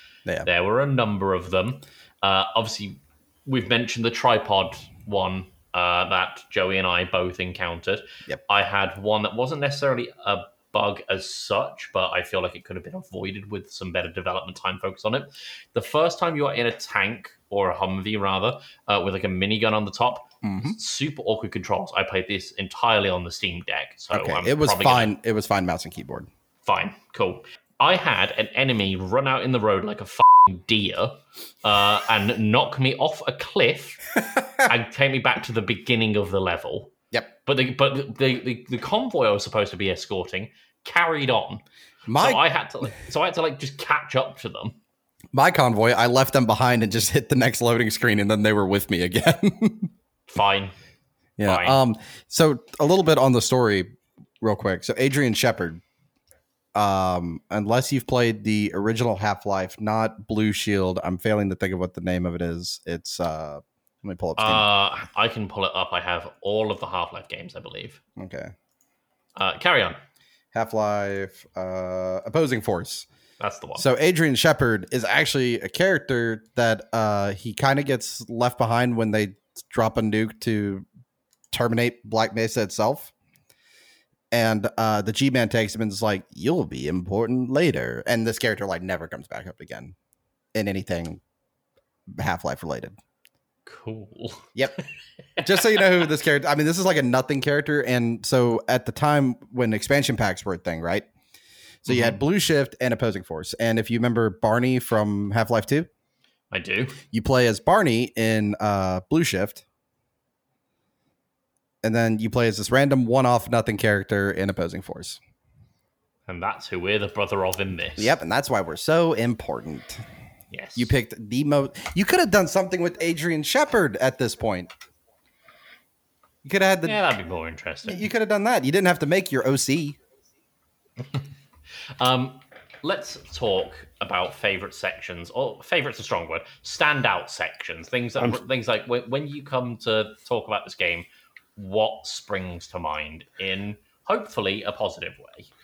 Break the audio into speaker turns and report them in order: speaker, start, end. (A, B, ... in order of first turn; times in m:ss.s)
0:00.4-0:25.1 A
0:20.4-0:20.8 B
0:24.1-0:26.3 B
0:26.6-0:34.1 A
0:34.4-0:34.6 B
0:34.6-0:41.6 A
0:42.1-0:42.4 B
0:42.1-0:44.8 A
0:45.3-0:49.9 B
0:50.3-0:50.7 A
0:51.4-0:55.8 B
0:51.4-0:51.8 A
0:56.7-1:04.7 B
1:04.4-1:08.0 A
1:08.2-1:08.5 B
1:09.4-1:10.0 A
1:10.5-1:13.1 B
1:13.4-1:13.8 A
1:13.8-1:20.8 B
1:21.5-1:23.1 B
1:24.3-1:29.9 B
1:30.5-1:31.2 B
1:32.1-1:33.0 B
1:33.6-1:34.8 A
1:35.4-1:35.9 A
1:35.4-1:41.1 B
1:41.8-1:45.9 B
1:41.9-1:42.2 A
1:46.5-1:47.0 A
1:47.1-1:49.6 B
1:51.8-1:55.2 B
1:56.3-1:58.1 A
1:58.0-2:00.0 B
2:00.5-2:01.0 A
2:00.8-2:04.7 B
2:06.4-2:07.0 B
2:06.8-2:08.1 A
2:07.8-2:10.0 B
2:12.0-2:21.0 A
2:21.6-2:25.5 A